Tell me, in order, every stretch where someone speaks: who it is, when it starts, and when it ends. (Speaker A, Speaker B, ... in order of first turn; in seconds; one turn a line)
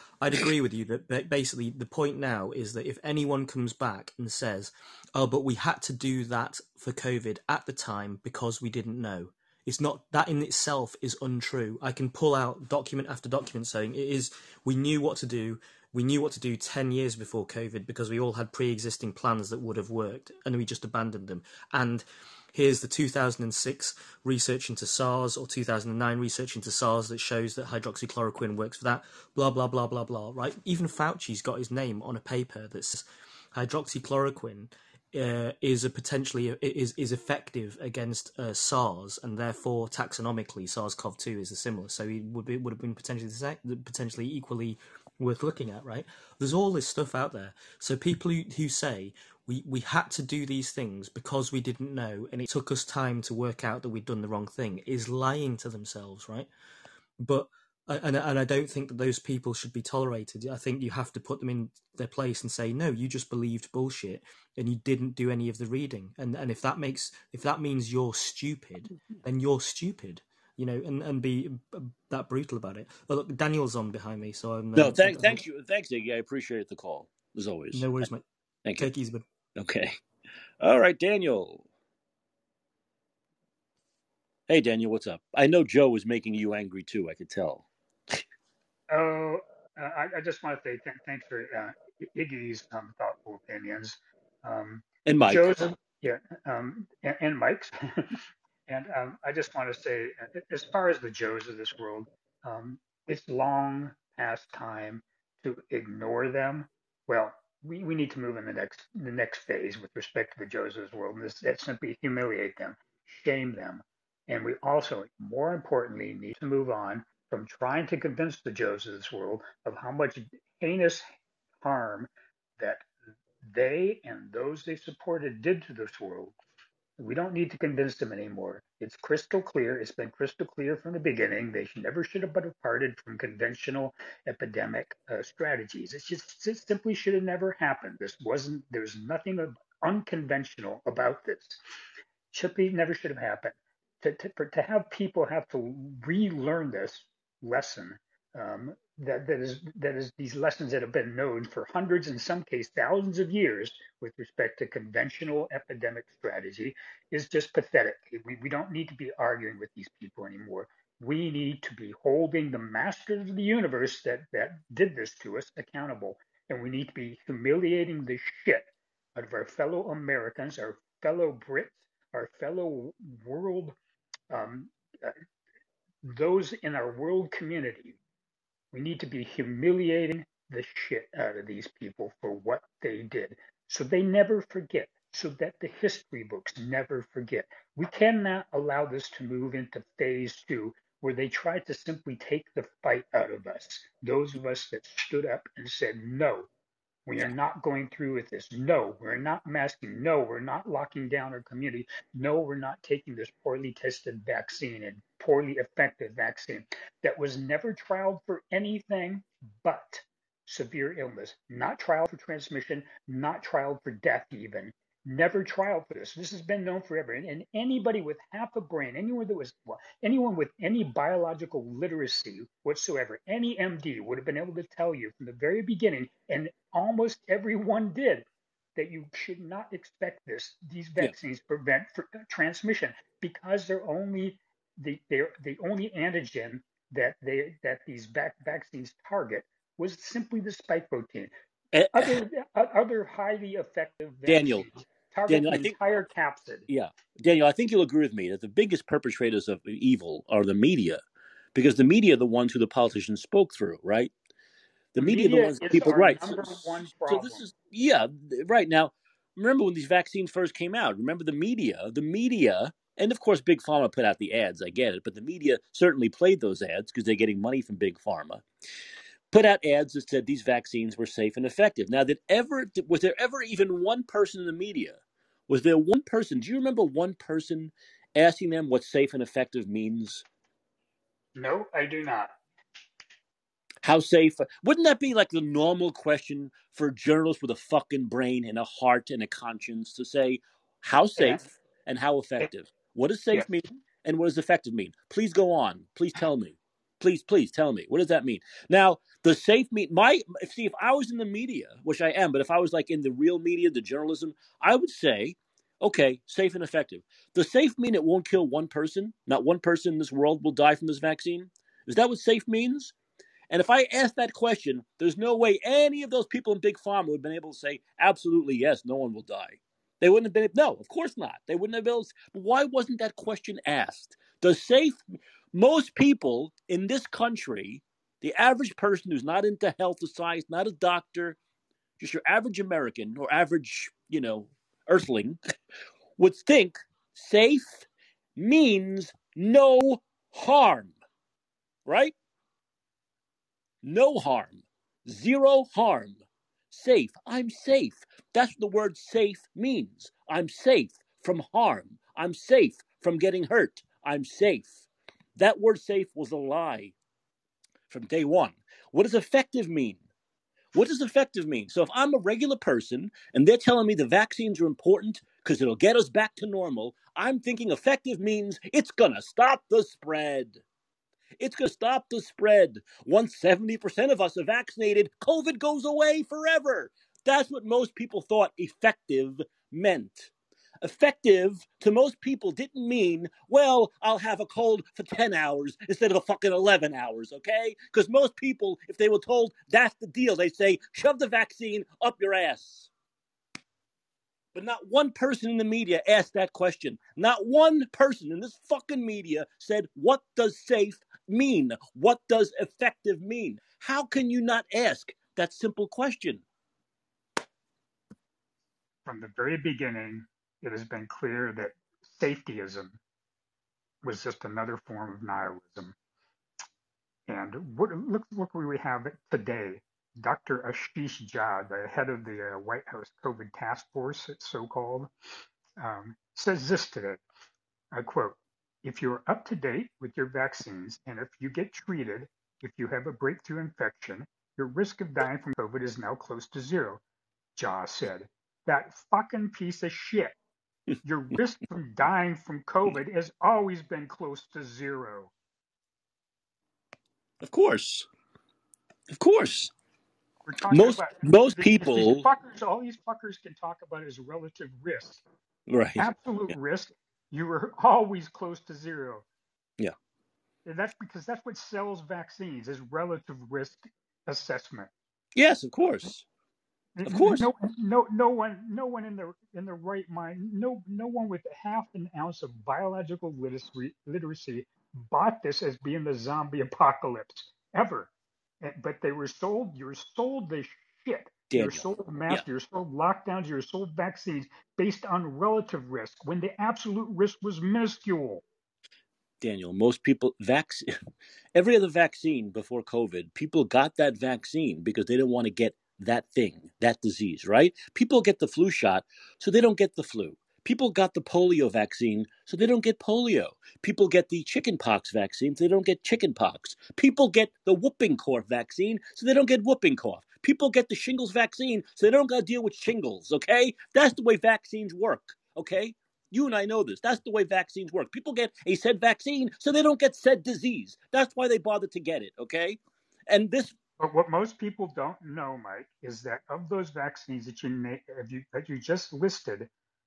Speaker A: 0.2-56.5
Speaker A: 57.2-75.4
Speaker B: 74.8-78.1
Speaker A: 77.7-78.2
Speaker B: 78.6-78.9
Speaker A: 78.8-79.2
Speaker B: 79.6-80.0
Speaker B: 80.6-81.6
Speaker B: 84.5-88.2
Speaker C: 88.9-98.0
Speaker B: 95.0-95.7
Speaker C: 98.7-121.0
Speaker C: 121.6-122.9
Speaker C: 123.4-126.3
Speaker C: 127.0-141.6
Speaker C: 142.3-173.8
Speaker C: 174.3-175.2
Speaker C: 176.0-178.0
Speaker C: 178.7-196.5
Speaker C: 197.1-241.3
Speaker B: 241.7-242.2
Speaker C: 241.9-246.7
Speaker B: 244.2-244.7
Speaker B: 245.3-245.7
Speaker B: 246.7-251.0
Speaker B: 251.5-254.1
Speaker B: 254.9-268.4
Speaker C: 255.0-257.4
Speaker B: 269.3-280.2
Speaker C: 281.3-282.4
Speaker B: 283.8-312.9
Speaker C: 291.2-291.4
Speaker B: 313.5-331.4
Speaker B: 332.0-335.4
Speaker B: 336.2-340.9
Speaker B: 341.9-342.1
Speaker B: 343.8-354.8
Speaker B: 355.4-356.9
Speaker B: 357.9-360.0
Speaker B: 360.7-370.6
Speaker B: 371.4-392.9
Speaker B: 394.5-406.4
Speaker C: 409.0-413.0
Speaker C: 414.0-415.9
Speaker C: 417.3-425.1
Speaker C: 425.8-427.2
Speaker C: 427.9-437.0
Speaker C: 437.6-440.3
Speaker C: 441.0-445.3
Speaker B: 447.4-448.1
Speaker B: 449.1-449.7
Speaker C: 450.4-455.2
Speaker B: 450.7-452.3
Speaker B: 455.7-456.6
Speaker C: 456.0-459.2
Speaker C: 460.6-464.9
Speaker B: 465.4-466.2
Speaker C: 467.0-488.4
Speaker B: 467.0-467.5
Speaker B: 481.5-482.4
Speaker B: 489.4-491.0
Speaker B: 491.5-523.7
Speaker C: 524.0-529.7